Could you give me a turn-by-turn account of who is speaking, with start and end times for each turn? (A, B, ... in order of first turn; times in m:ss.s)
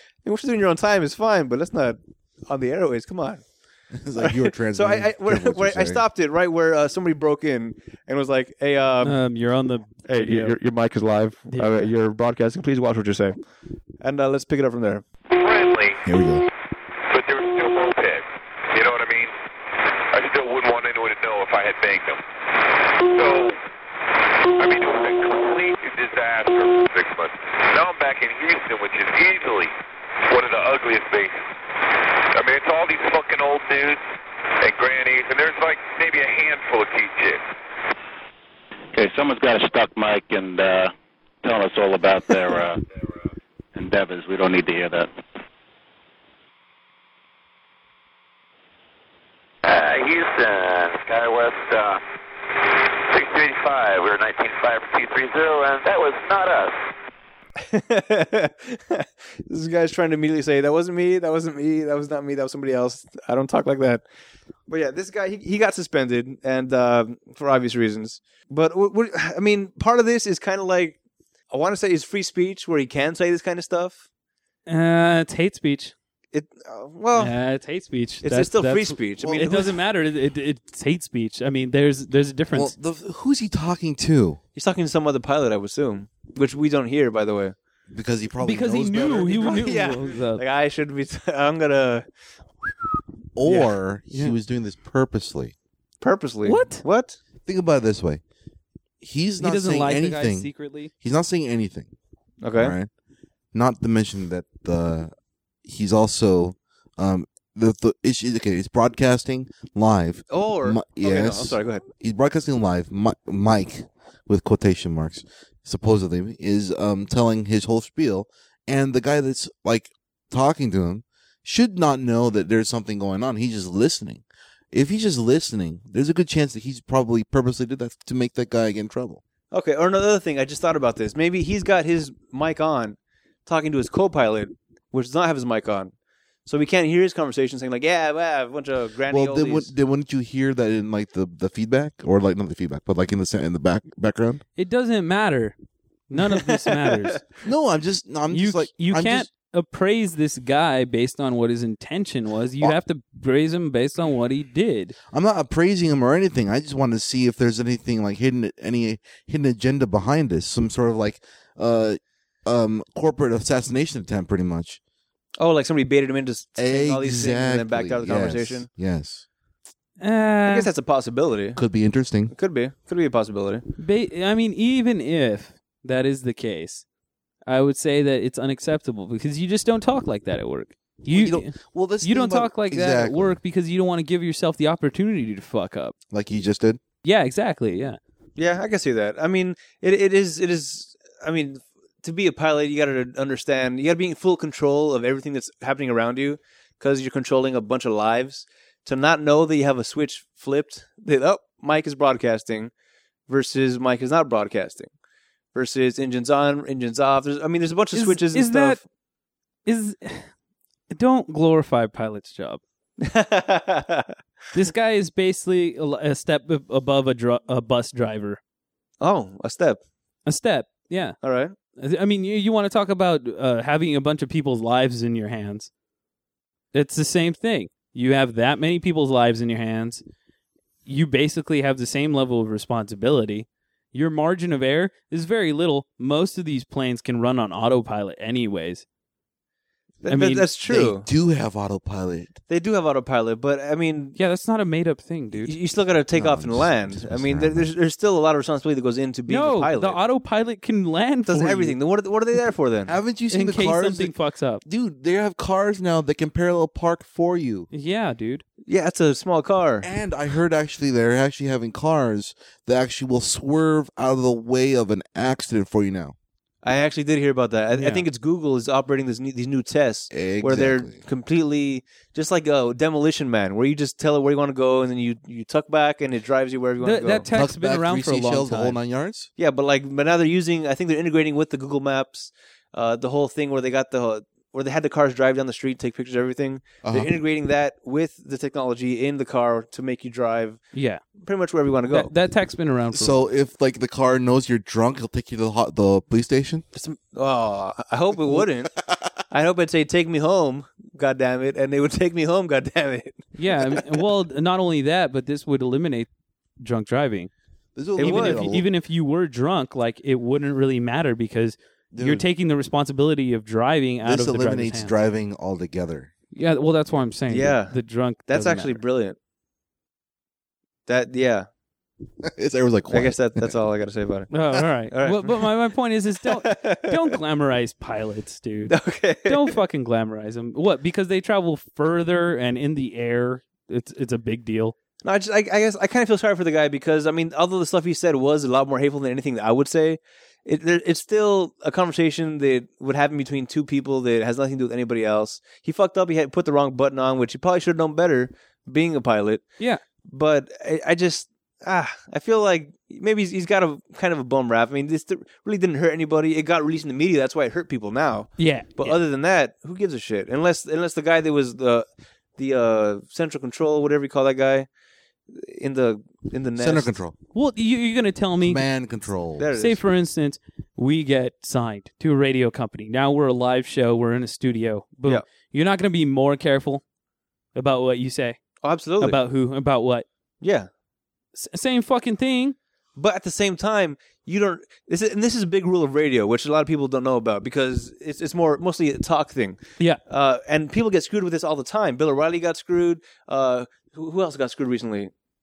0:00.2-0:03.4 A
0:03.9-0:06.0 B
0:04.2-0:09.2 A
0:09.0-0:10.5 C
0:10.1-0:13.4 A
0:11.5-0:11.9 C
0:14.0-0:15.0 A
0:15.3-0:16.0 D
0:16.0-0:16.5 B
0:17.1-0:19.3 D
0:20.1-0:22.2 D
0:23.0-0:23.6 D
0:24.6-0:29.7 D
0:30.2-0:31.4 D
0:32.3-0:34.0 D
0:34.6-0:37.4 D
0:38.9-0:42.8 E
0:43.7-0:45.1 E
0:49.6-0:52.0 D
0:53.1-0:56.7 D
0:57.6-1:04.0 A
1:04.7-1:11.0 A
1:11.5-1:14.0 A
1:14.7-1:15.9 C
1:16.3-1:17.3 A
1:17.2-1:22.7 C
1:18.2-1:19.8 A
1:19.2-1:19.5 B
1:22.5-1:24.4 B
1:24.6-1:27.6 A
1:27.9-1:29.7 B
1:28.4-1:30.4 C
1:29.1-1:32.0 A
1:33.4-1:35.5 B
1:33.4-1:33.7 A
1:36.0-1:37.2 A
1:36.4-1:36.8 C
1:37.4-1:38.2 B
1:39.0-1:41.9 B
1:39.4-1:40.9 C
1:42.4-1:42.8 A
1:42.6-1:42.9 B
1:43.5-1:45.1 B
1:45.6-2:09.2 B
1:50.3-1:51.8 A
2:09.5-2:15.9 A
2:16.4-2:19.7 A
2:19.1-2:24.4 B
2:24.6-2:25.5 C
2:26.1-2:27.2 C
2:26.3-2:27.2 A
2:27.4-2:29.3 B
2:28.3-2:35.0 C
2:35.1-2:44.8 B
2:45.4-2:48.7 A
2:46.6-2:49.2 B
2:50.0-2:50.7 C
2:50.4-2:51.6 A
2:51.6-2:52.3 B
2:52.3-2:53.6 A
2:53.8-2:56.8 C
2:57.5-3:05.9 C
3:01.1-3:03.4 B
3:06.1-3:06.8 B
3:07.0-3:08.0 C
3:08.4-3:22.7 A
3:23.3-3:24.9 A
3:25.5-3:28.8 A
3:27.9-3:28.8 C
3:29.6-3:30.3 C
3:30.9-3:32.6 C
3:33.0-3:34.1 A
3:34.5-3:38.4 C
3:39.0-3:39.8 A
3:40.2-3:41.2 C
3:41.2-3:41.5 A
3:41.8-3:45.7 C
3:46.7-3:50.0 C
3:50.8-3:58.8 C
4:00.0-4:01.0 A
4:00.1-4:00.4 C
4:00.7-4:02.4 B
4:02.5-4:04.2 A
4:04.2-4:05.5 C
4:05.4-4:10.0 A
4:06.1-4:07.7 B
4:09.3-4:11.8 C
4:11.3-4:12.9 A
4:12.9-4:17.7 B
4:13.3-4:14.6 C
4:17.7-4:18.4 C
4:18.7-4:19.9 A
4:19.8-4:26.1 B
4:26.6-4:37.2 A
4:27.8-4:28.0 C
4:30.1-4:31.0 B
4:36.8-4:38.8 C
4:37.3-4:39.3 B
4:39.4-4:52.1 A
4:46.8-4:47.1 B
4:50.7-4:51.0 C
4:51.9-4:53.2 C
4:52.9-4:56.6 B
4:56.7-4:58.8 A
4:59.3-5:03.8 A
5:03.4-5:06.1 C
5:06.6-5:07.3 C
5:07.8-5:08.7 B
5:08.0-5:08.4 A
5:08.0-5:14.9 C
5:11.9-5:12.2 B
5:14.0-5:16.1 B
5:16.3-5:18.8 C
5:17.3-5:17.8 A
5:18.3-5:19.2 A
5:20.9-5:21.5 A
5:22.2-5:23.5 B
5:22.9-5:25.5 A
5:24.3-5:34.7 C
5:26.2-5:27.1 A
5:28.7-5:29.6 A
5:35.0-5:49.4 A
5:50.1-6:01.8 A
5:58.4-5:59.0 C
6:02.4-6:04.7 A
6:05.3-6:06.9 A
6:06.6-6:07.1 B
6:07.3-6:08.6 C
6:08.4-6:09.5 B
6:09.4-6:09.8 A
6:09.6-6:16.8 C
6:17.5-6:18.4 C
6:18.6-6:19.2 A
6:19.0-6:20.0 C
6:20.4-6:20.7 A
6:21.4-6:22.6 C
6:23.0-6:35.1 A